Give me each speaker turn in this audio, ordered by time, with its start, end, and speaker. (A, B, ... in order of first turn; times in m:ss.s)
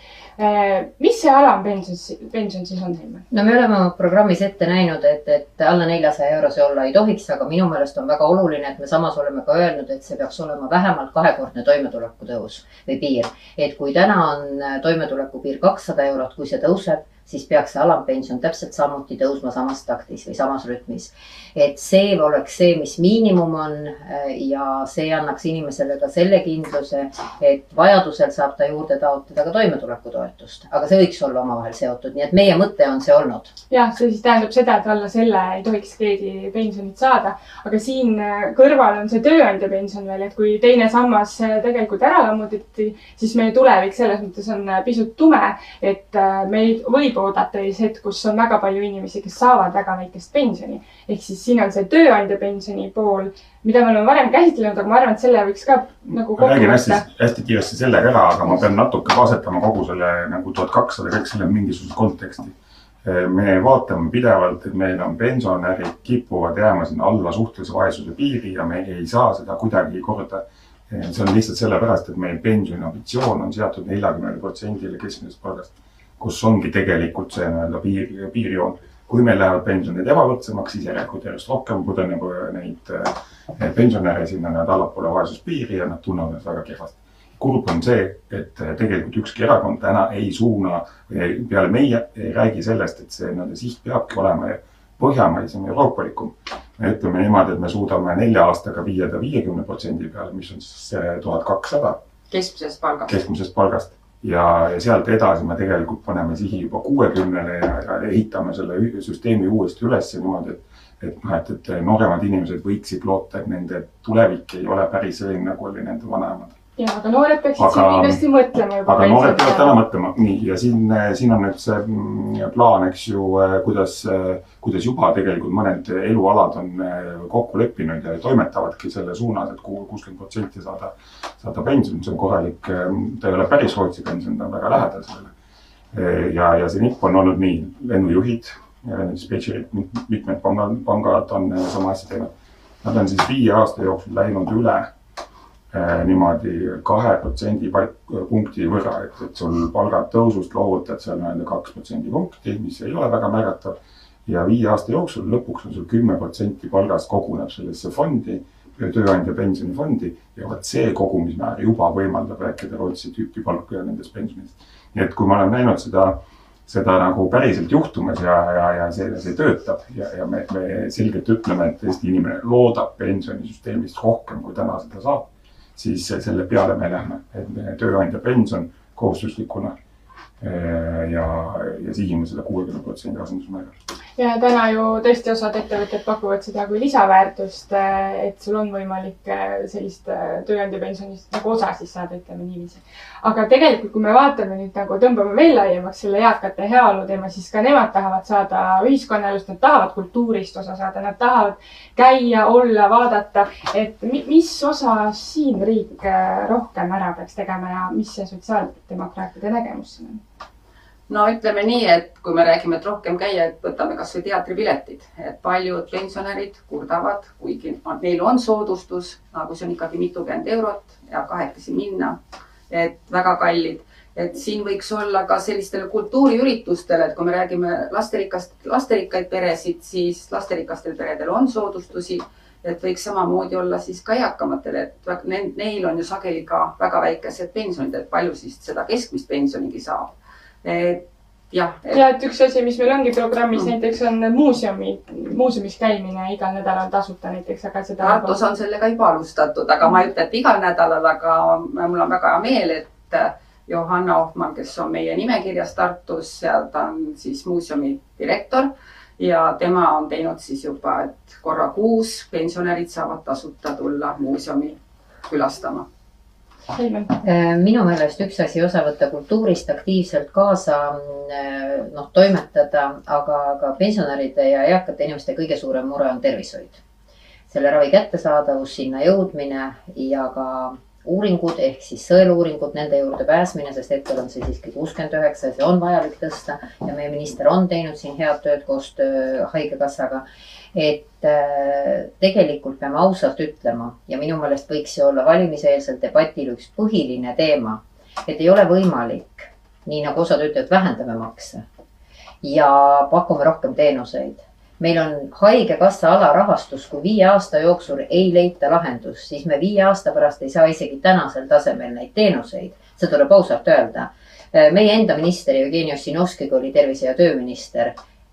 0:00.4-0:03.2 A
0:03.3-0:33.5 B
0:33.7-0:57.0 A
0:56.2-1:42.0 C
1:42.3-1:43.2 D
1:43.1-1:56.5 C
1:56.8-1:59.8 A
1:57.6-1:58.2 C
1:58.8-2:15.3 C
2:15.9-2:22.3 C
2:22.8-2:24.9 C
2:25.7-2:59.7 C
3:00.4-3:03.7 C
3:04.2-3:30.2 A
3:31.1-3:42.2 D
3:42.7-4:00.1 D
4:00.6-4:02.0 D
4:01.9-4:08.4 A
4:08.0-4:24.8 D
4:25.3-4:25.8 D
4:26.7-4:27.1 A
4:27.2-4:36.8 B
4:37.5-5:01.6 B
5:02.4-5:18.0 B